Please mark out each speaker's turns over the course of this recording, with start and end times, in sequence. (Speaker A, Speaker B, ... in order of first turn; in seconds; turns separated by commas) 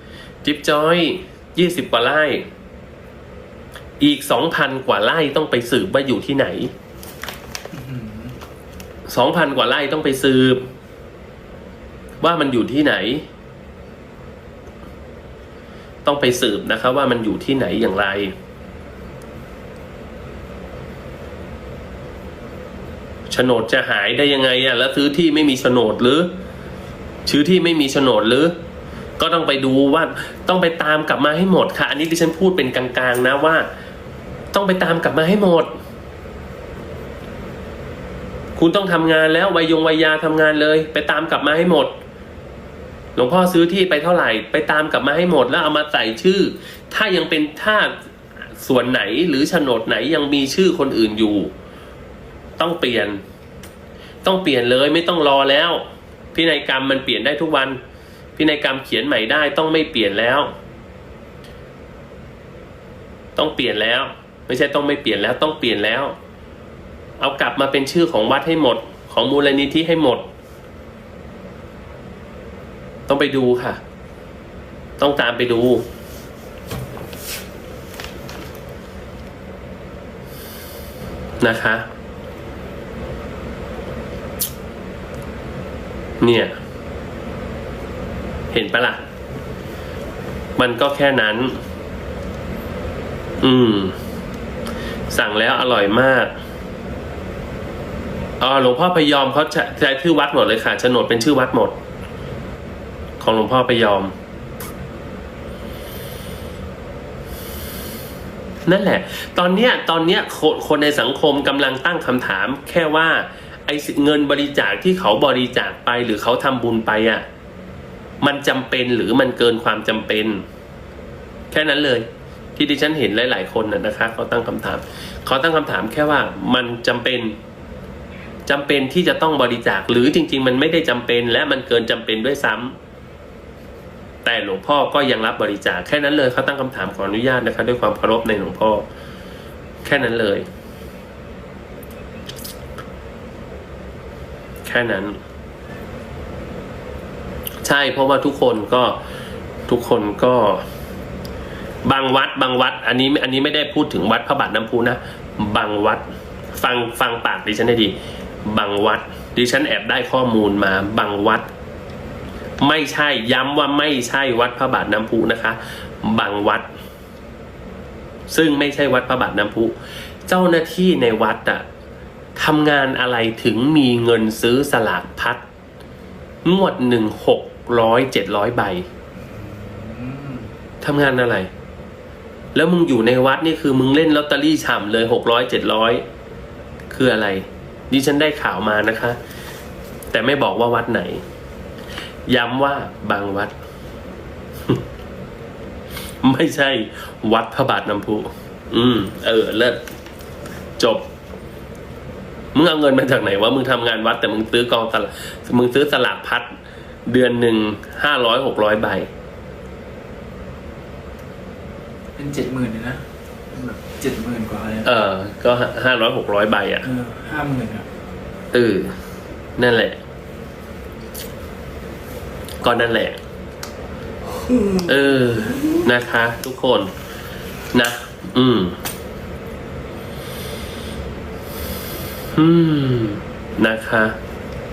Speaker A: 0.4-2.5, Speaker A: 4.0-6.7, Speaker B: 7.7-8.4, Speaker A: 9.1-10.6, Speaker A: 12.2-13.2, Speaker A: 16.0-18.3, Speaker A: 23.3-26.3, Speaker A: 27.2-28.5, Speaker A: 29.2-33.7, Speaker A: 34.5-35.7, Speaker A: 38.5-41.9, Speaker A: 43.1-47.9, Speaker A: 48.6-51.5, Speaker A: 52.6-53.2, Speaker A: 54.2-57.8, Speaker A: 58.4-60.5, Speaker A: 63.4-66.1, Speaker A: 67.2-70.3, Speaker A: 73.1-73.8, Speaker A: 75.0-75.8, Speaker A: 81.4-81.8, Speaker A: 86.2-86.5, Speaker A: 88.5-89.0, Speaker A: 90.6-91.5, Speaker A: 93.4-94.0, Speaker A: 95.1-96.3, Speaker A: 98.4-101.8, Speaker A: 103.2-104.1, Speaker A: 108.7-117.2, Speaker A: 118.2-120.5, Speaker A: 121.5-127.3, Speaker A: 128.5-132.8, Speaker A: 134.2-138.9, Speaker A: 139.8-140.4, Speaker A: 144.6-145.2, Speaker A: 147.6-149.0, Speaker A: 149.7-150.6, Speaker A: 151.8-157.9, Speaker A: 158.4-161.5, Speaker A: 162.6-166.7, Speaker A: 168.3-169.7, Speaker A: 170.3-171.6, Speaker A: 172.3-175.4, Speaker A: 176.4-178.9, Speaker B: 179.2-180.5, Speaker A: 180.8-181.5, Speaker A: 182.5-186.0, Speaker A: 186.9-189.2, Speaker A: 190.1-191.2, Speaker A: 192.3-193.5, Speaker A: 196.2-199.8, Speaker A: 200.8-201.0, Speaker A: 202.5-206.5, Speaker A: 207.1-209.1, Speaker B: 212.2-214.9, Speaker A: 214.8-216.9, Speaker B: 216.8-217.9, Speaker A: 218.5-218.9, Speaker A: 219.6-220.0, Speaker A: 222.6-223.2, Speaker A: 224.8-226.9, Speaker A: 227.7-228.8, Speaker A: 232.3-234.2